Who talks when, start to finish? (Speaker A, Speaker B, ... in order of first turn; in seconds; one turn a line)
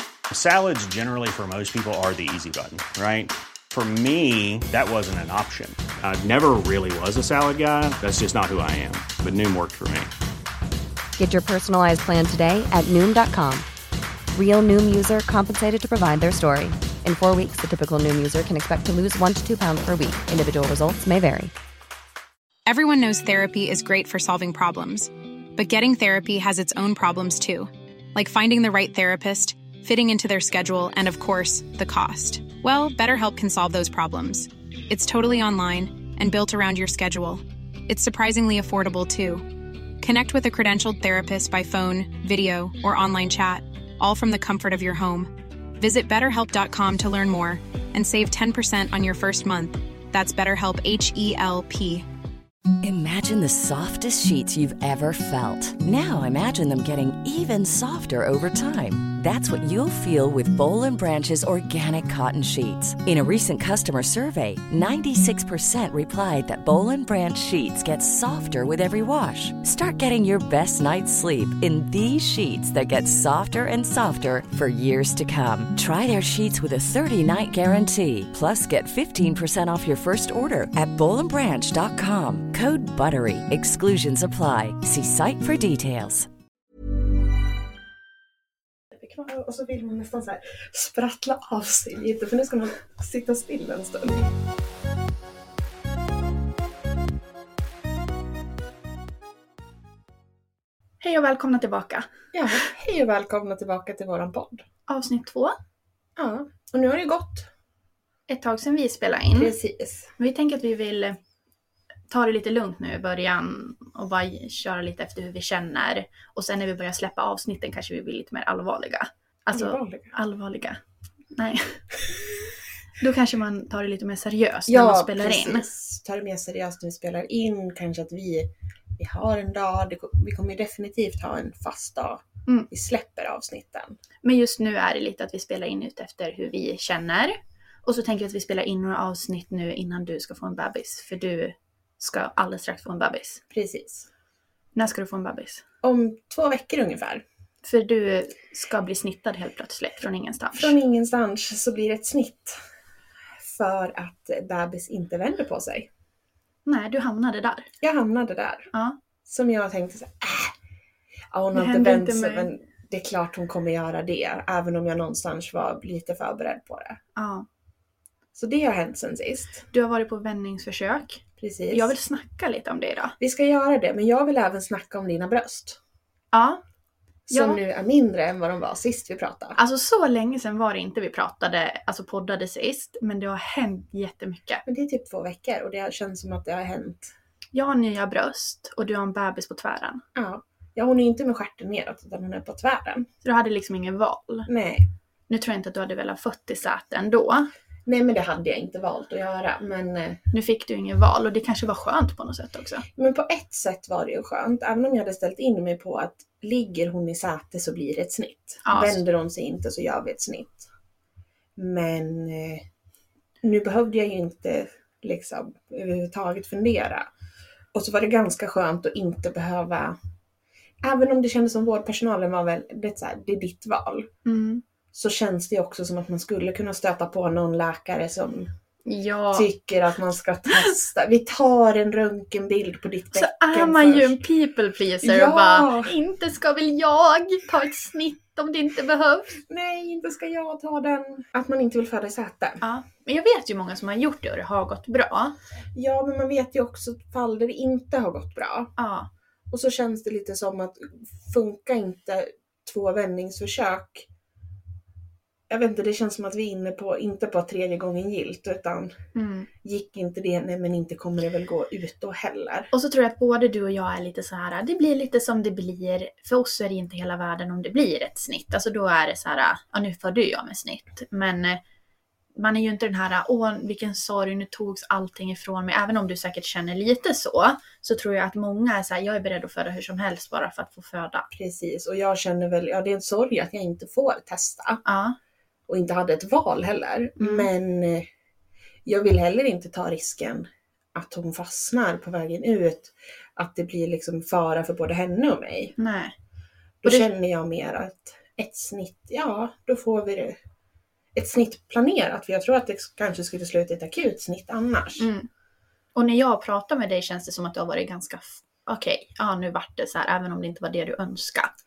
Speaker A: 0.3-10.1
Speaker B: 11.2-13.7
Speaker B: 14.3-21.5
Speaker C: 22.7-39.5
Speaker C: 40.0-52.1
Speaker D: 52.8-86.3
Speaker E: 89.2-94.3
Speaker F: 101.0-102.1
Speaker E: 102.3-104.7
Speaker F: 104.9-105.6
Speaker E: 106.2-107.5
Speaker F: 108.3-109.5
Speaker E: 109.3-110.1
Speaker F: 110.2-111.2
Speaker F: 112.1-120.8
Speaker E: 119.5-120.1
Speaker F: 121.3-121.8
Speaker F: 123.0-125.7
Speaker E: 124.7-134.0
Speaker F: 134.2-143.4
Speaker E: 143.5-144.1
Speaker F: 144.8-145.6
Speaker E: 145.8-147.2
Speaker F: 147.6-150.8
Speaker E: 150.5-152.6
Speaker E: 153.4-155.9
Speaker F: 156.7-157.7
Speaker E: 157.8-158.7
Speaker E: 159.3-160.5
Speaker E: 161.3-167.0
Speaker F: 161.5-162.5
Speaker F: 167.2-167.5
Speaker E: 168.3-169.7
Speaker F: 169.7-173.2
Speaker E: 171.4-171.9
Speaker E: 173.2-175.8
Speaker F: 176.3-176.6
Speaker E: 177.3-179.6
Speaker F: 177.3-177.6
Speaker F: 179.6-184.6
Speaker E: 184.7-187.1
Speaker F: 187.5-190.0
Speaker E: 190.2-193.1
Speaker F: 193.2-194.5
Speaker E: 194.5-194.9
Speaker F: 195.3-197.5
Speaker E: 197.9-200.2
Speaker F: 200.3-202.8
Speaker E: 202.9-210.7
Speaker F: 208.7-209.0
Speaker E: 211.6-212.7
Speaker E: 213.4-217.1
Speaker E: 217.7-220.0
Speaker E: 220.8-224.1
Speaker F: 224.2-224.6
Speaker E: 224.9-228.5
Speaker F: 228.8-229.5
Speaker E: 229.3-234.2
Speaker F: 233.1-239.4
Speaker E: 235.0-235.9
Speaker E: 239.4-242.6
Speaker F: 242.6-245.3
Speaker E: 245.7-248.7
Speaker F: 248.8-249.1
Speaker E: 249.5-254.1
Speaker E: 255.5-259.0
Speaker F: 259.1-259.5
Speaker E: 259.6-262.7
Speaker F: 262.7-271.6
Speaker F: 272.4-281.3
Speaker E: 281.3-284.8
Speaker F: 284.9-285.2
Speaker E: 285.7-288.1
Speaker F: 287.2-287.5
Speaker E: 288.9-295.8
Speaker F: 295.8-296.1
Speaker E: 296.8-300.4
Speaker E: 301.1-305.1
Speaker F: 305.0-305.3
Speaker F: 305.9-311.5